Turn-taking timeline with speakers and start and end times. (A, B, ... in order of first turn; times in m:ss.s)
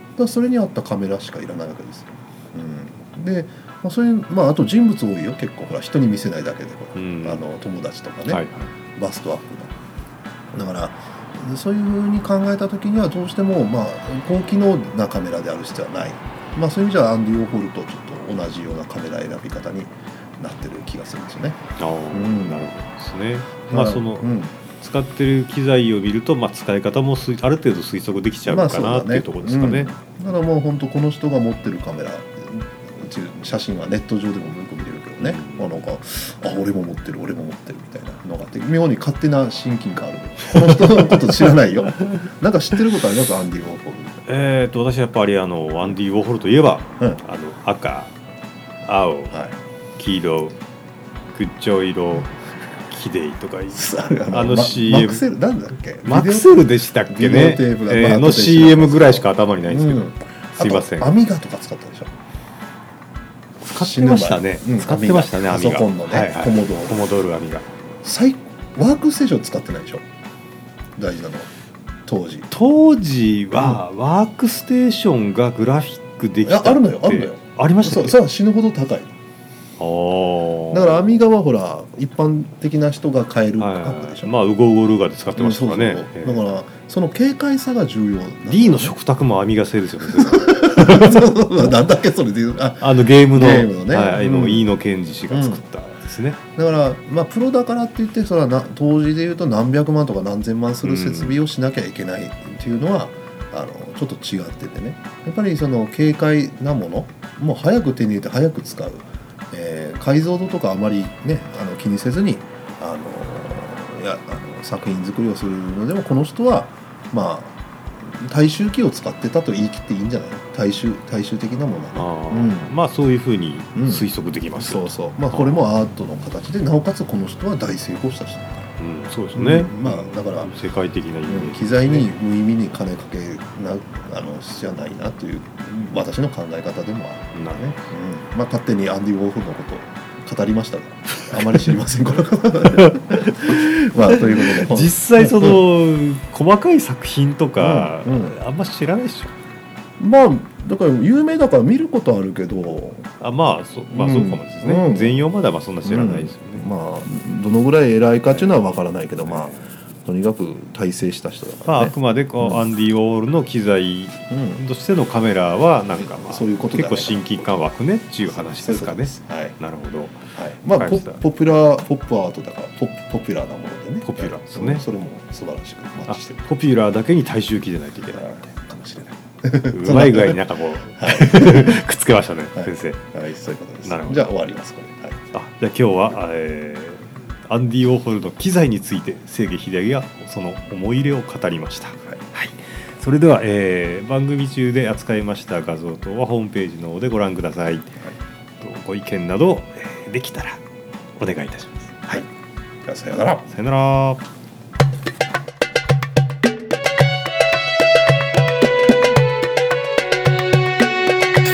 0:00.2-0:08.4 A
0:06.9-0:07.4 B
0:08.3-0:08.7 B
0:09.0-0:09.7 A
0:10.5-0:22.6 A
0:21.8-0:29.9 B
0:23.7-0:24.6 A
0:28.5-0:44.2 A
0:35.2-0:35.8 B
0:40.5-0:42.2 B
0:44.2-0:48.1 B
0:48.8-0:49.3 B
0:49.3-0:49.6 A
0:50.0-0:50.6 B
0:51.3-0:52.3 B
0:52.9-0:55.2 B
0:53.7-1:02.1 A
0:56.0-1:01.1 B
1:03.6-1:07.7 B
1:03.8-1:07.0 A
1:08.0-1:10.0 A
1:11.0-1:11.5 A
1:12.1-1:12.5 A
1:12.5-1:18.2 B
1:13.5-1:13.8 A
1:16.4-1:19.1 A
1:19.8-1:21.2 B
1:20.7-1:24.3 A
1:23.6-1:26.4 B
1:25.4-1:29.0 A
1:28.5-1:31.7 B
1:30.1-1:34.7 A
1:32.8-1:36.4 B
1:35.3-1:35.6 A
1:36.5-2:02.7 A
1:40.8-1:41.4 B
2:01.9-2:05.6 B
2:03.8-2:08.7 A
2:08.8-2:12.1 B
2:09.3-2:10.5 A
2:11.3-2:25.6 A
2:17.3-2:17.8 B
2:21.3-2:21.7 B
2:22.6-2:23.5 B
2:24.1-2:29.3 B
2:27.6-2:28.4 A
2:30.0-2:33.1 A
2:33.2-2:36.7 B
2:33.9-2:35.2 A
2:35.8-2:42.6 A
2:39.2-2:39.6 B
2:41.7-2:50.2 B
2:44.3-2:44.6 A
2:46.0-2:47.5 A
2:48.3-2:49.6 A
2:50.3-2:56.4 A
2:50.8-2:51.2 B
2:54.0-2:54.8 B
2:56.1-2:58.3 B
2:58.1-3:00.4 A
2:59.7-3:03.0 B
3:01.0-3:01.8 A
3:02.5-3:05.3 A
3:03.8-3:04.3 B
3:05.3-3:17.9 B
3:18.6-3:20.6 B
3:21.2-3:22.2 B
3:22.8-3:23.5 A
3:23.5-3:24.2 B